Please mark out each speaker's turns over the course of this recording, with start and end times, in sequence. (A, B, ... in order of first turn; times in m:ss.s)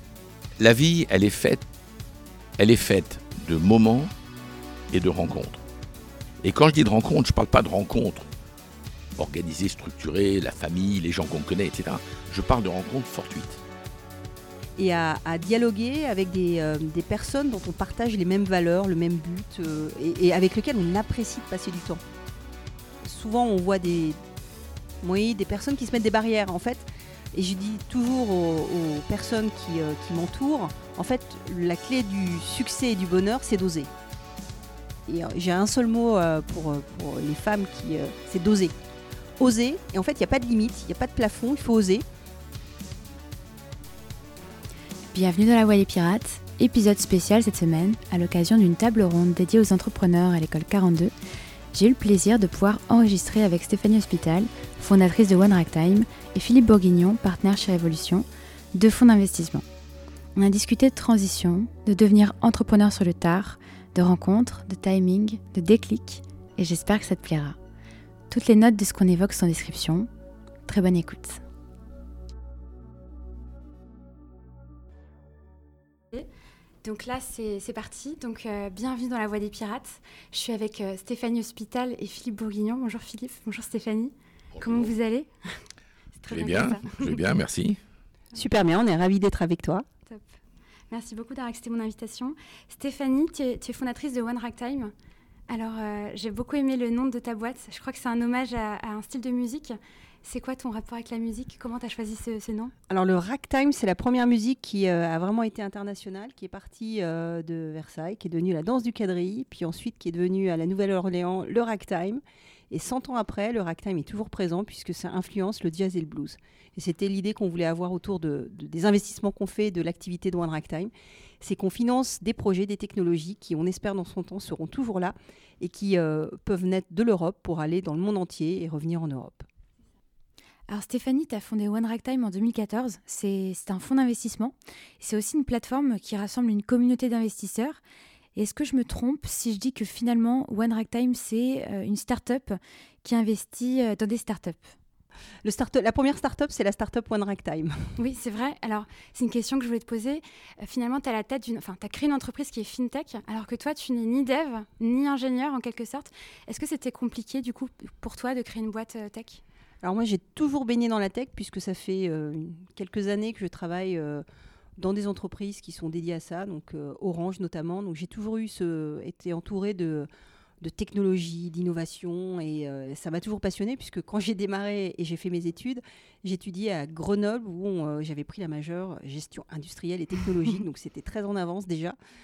0:00.6-0:01.6 A
0:02.6-0:04.1 A
0:04.9-0:05.6 A
0:06.4-0:08.3 A
0:09.2-0:13.6 A
0:14.8-0:22.0 B
0:23.0-0:24.2 B
0:25.0-0:33.9 B
0:35.1-0:38.7 B
0:39.4-0:42.0 B
0:45.1-0:51.1 C
0:51.7-0:59.6 C
1:00.4-1:07.6 C
1:08.3-1:10.1 C
1:10.7-1:11.4 C
1:16.8-1:25.6 C
1:24.5-1:24.9 A
1:26.2-1:27.2 C
1:26.3-1:27.8 A
1:28.3-1:29.8 B
1:30.9-1:34.9 C
1:35.5-1:42.7 C
1:42.9-2:09.4 B
2:10.7-2:17.8 C
2:18.4-2:24.7 C
2:25.4-2:27.9 B
2:28.0-2:39.4 C
2:39.8-2:44.2 B
2:44.8-2:50.1 B
2:50.6-3:02.0 B